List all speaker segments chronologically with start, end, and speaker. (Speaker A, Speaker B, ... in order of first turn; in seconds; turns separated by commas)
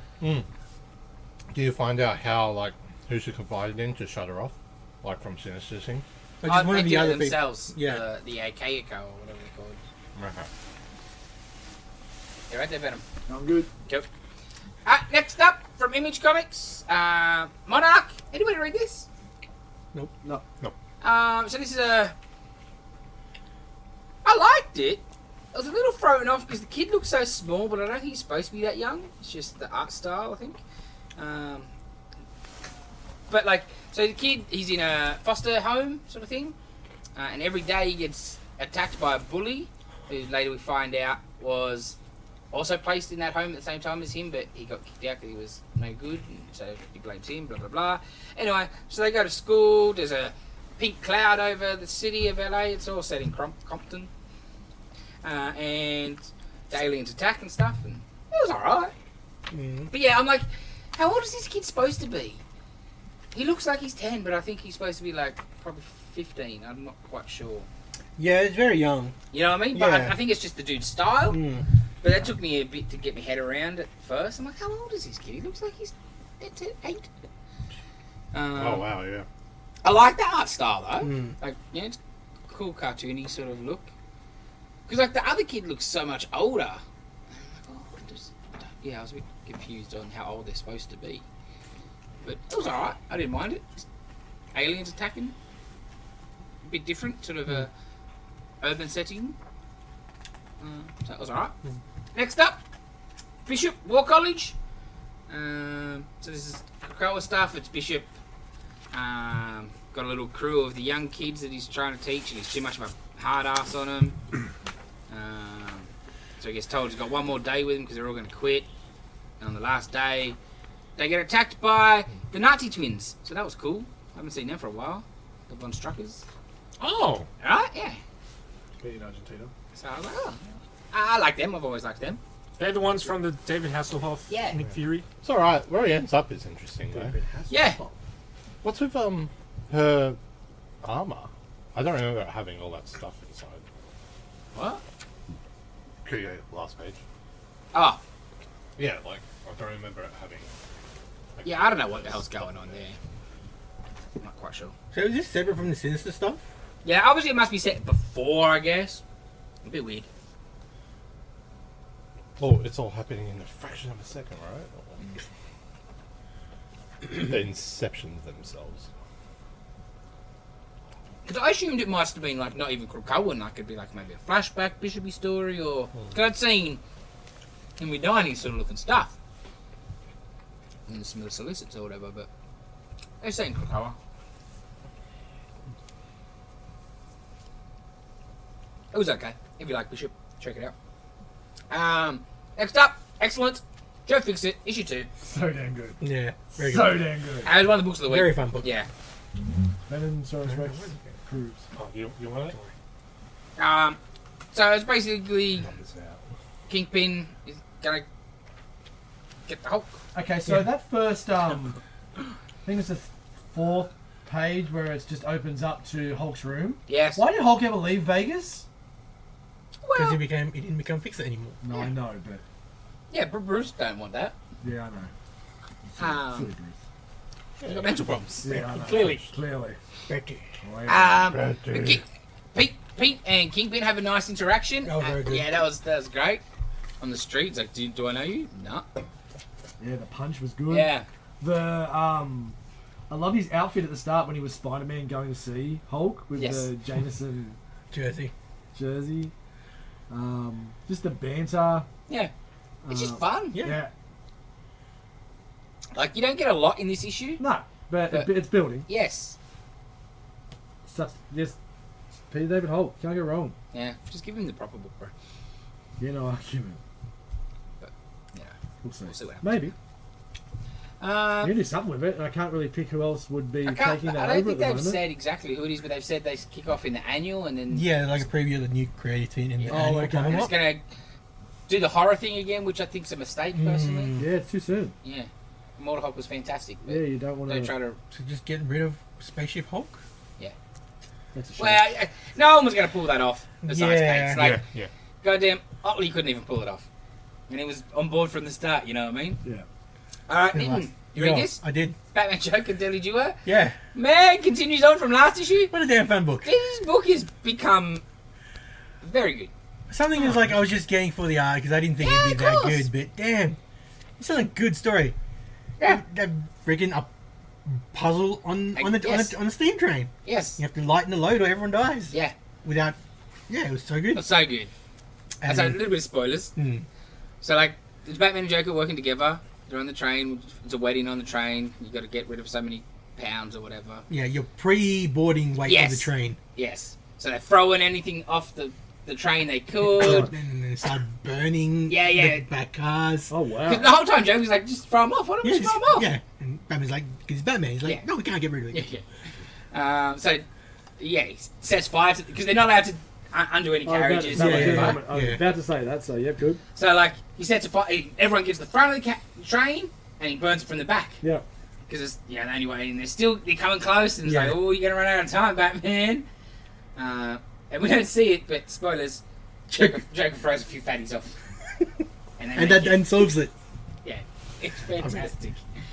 Speaker A: 0.2-0.5, Speaker A: 1.5-6.0, Speaker B: 6.4-8.0, Speaker C: 6.5-9.8, Speaker A: 10.2-10.5, Speaker C: 12.5-13.0, Speaker D: 13.3-13.7, Speaker C: 14.8-19.1, Speaker C: 21.0-22.1, Speaker C: 24.2-30.6, Speaker C: 31.2-31.7, Speaker C: 33.3-36.5, Speaker C: 37.1-42.0, Speaker C: 42.5-54.1, Speaker C: 55.2-58.9, Speaker B: 59.5-59.9, Speaker C: 59.9-62.4, Speaker C: 63.3-67.7, Speaker B: 68.2-69.1, Speaker C: 69.3-71.4, Speaker B: 69.7-70.2, Speaker B: 71.3-71.7, Speaker C: 72.0-77.1, Speaker C: 78.3-78.9, Speaker A: 78.5-79.2, Speaker C: 79.8-82.0, Speaker B: 81.0-81.3, Speaker C: 82.5-83.9, Speaker C: 84.9-86.8, Speaker C: 87.4-91.2, Speaker C: 92.2-93.8, Speaker C: 94.5-95.3, Speaker C: 96.6-97.7, Speaker C: 98.6-99.3, Speaker C: 100.6-101.5, Speaker C: 102.1-102.6, Speaker C: 103.5-104.5, Speaker C: 105.3-108.1, Speaker C: 108.9-114.2, Speaker C: 115.1-118.7, Speaker C: 119.4-120.4, Speaker C: 121.0-126.2, Speaker E: 126.8-127.3, Speaker C: 127.4-128.0, Speaker D: 128.8-129.5, Speaker C: 129.7-132.2, Speaker E: 132.6-135.1, Speaker C: 134.3-134.6, Speaker A: 135.2-137.1, Speaker D: 136.9-137.9, Speaker C: 137.5-137.8, Speaker A: 138.6-140.2, Speaker A: 140.8-143.6, Speaker C: 144.5-144.8, Speaker A: 146.0-147.0, Speaker C: 147.7-148.0, Speaker A: 148.8-150.5, Speaker A: 151.4-152.8, Speaker C: 151.4-153.0, Speaker C: 154.2-154.7, Speaker B: 154.9-156.4, Speaker C: 156.8-159.0, Speaker C: 159.6-160.1, Speaker A: 162.4-165.1, Speaker A: 167.1-168.9, Speaker C: 171.2-176.8, Speaker C: 177.8-179.1, Speaker C: 180.9-182.3, Speaker C: 183.2-183.9, Speaker C: 188.9-190.7, Speaker C: 191.7-195.1, Speaker D: 195.2-196.0, Speaker B: 196.0-197.0, Speaker D: 196.6-197.5, Speaker C: 197.4-198.9, Speaker B: 198.1-198.7, Speaker D: 199.9-201.7, Speaker E: 201.7-202.7, Speaker C: 203.6-204.0, Speaker C: 204.5-205.7, Speaker A: 205.6-206.2, Speaker C: 206.7-208.0, Speaker C: 209.5-209.9, Speaker D: 210.1-211.8, Speaker D: 212.6-218.7, Speaker C: 216.9-217.2, Speaker C: 219.8-220.2, Speaker B: 219.9-221.6, Speaker D: 221.6-222.4, Speaker C: 223.1-224.3, Speaker D: 224.6-225.1, Speaker D: 225.9-226.8, Speaker C: 226.0-226.5, Speaker A: 227.6-229.2, Speaker C: 227.6-229.2, Speaker D: 228.4-229.8, Speaker B: 230.1-230.4, Speaker D: 230.6-231.2, Speaker C: 230.9-236.4, Speaker A: 231.2-232.0, Speaker B: 234.8-235.5, Speaker C: 237.0-238.9, Speaker D: 239.8-242.6, Speaker C: 240.7-241.1, Speaker D: 243.1-247.6, Speaker C: 246.4-246.7, Speaker B: 247.9-248.3, Speaker D: 248.7-249.3, Speaker D: 250.1-251.9, Speaker D: 252.8-253.9, Speaker C: 252.9-253.6, Speaker B: 253.5-253.8, Speaker C: 255.9-257.4, Speaker D: 257.4-258.9, Speaker C: 258.9-259.4, Speaker D: 260.9-261.6, Speaker D: 262.3-263.5, Speaker C: 263.7-265.1, Speaker D: 266.0-266.8, Speaker C: 267.8-268.5, Speaker D: 268.8-269.7, Speaker C: 269.1-269.6, Speaker C: 271.0-271.6, Speaker D: 271.4-275.0, Speaker C: 273.6-278.1, Speaker B: 277.7-280.5, Speaker C: 279.6-280.8, Speaker D: 279.7-280.5, Speaker C: 281.7-284.1, Speaker B: 283.5-284.3, Speaker D: 284.2-284.9, Speaker C: 285.0-288.0, Speaker D: 286.8-287.7, Speaker B: 288.1-290.0, Speaker D: 291.3-291.8, Speaker C: 291.6-294.6, Speaker B: 293.6-294.4, Speaker E: 294.4-294.9, Speaker C: 295.2-296.9, Speaker C: 297.5-299.4, Speaker C: 300.3-301.6, Speaker B: 300.5-301.9, Speaker C: 302.1-303.4, Speaker B: 303.4-303.8, Speaker C: 303.9-305.7, Speaker B: 305.7-306.5, Speaker C: 306.4-308.0, Speaker C: 309.0-309.5, Speaker B: 309.9-313.6, Speaker C: 312.0-312.9, Speaker B: 314.2-315.1, Speaker B: 315.8-317.1, Speaker B: 317.7-323.0, Speaker C: 318.7-319.4, Speaker C: 320.2-320.6, Speaker B: 323.5-324.2, Speaker C: 324.1-324.7, Speaker C: 325.4-326.5, Speaker B: 325.4-325.8, Speaker B: 326.6-326.9, Speaker C: 327.4-334.0, Speaker B: 334.1-336.4, Speaker C: 335.6-340.3, Speaker B: 339.8-343.3, Speaker D: 340.0-340.3, Speaker C: 341.9-342.4, Speaker D: 343.3-343.9, Speaker C: 343.7-346.1, Speaker B: 345.4-348.9, Speaker C: 348.7-349.0, Speaker C: 349.7-350.4, Speaker C: 351.0-355.0, Speaker D: 353.9-356.6, Speaker B: 354.3-355.4, Speaker C: 356.7-361.2, Speaker C: 361.9-366.2, Speaker B: 364.2-364.6, Speaker C: 366.9-371.4, Speaker B: 369.7-370.0, Speaker C: 372.4-373.1, Speaker B: 372.5-373.5, Speaker C: 374.0-375.6, Speaker B: 375.0-375.3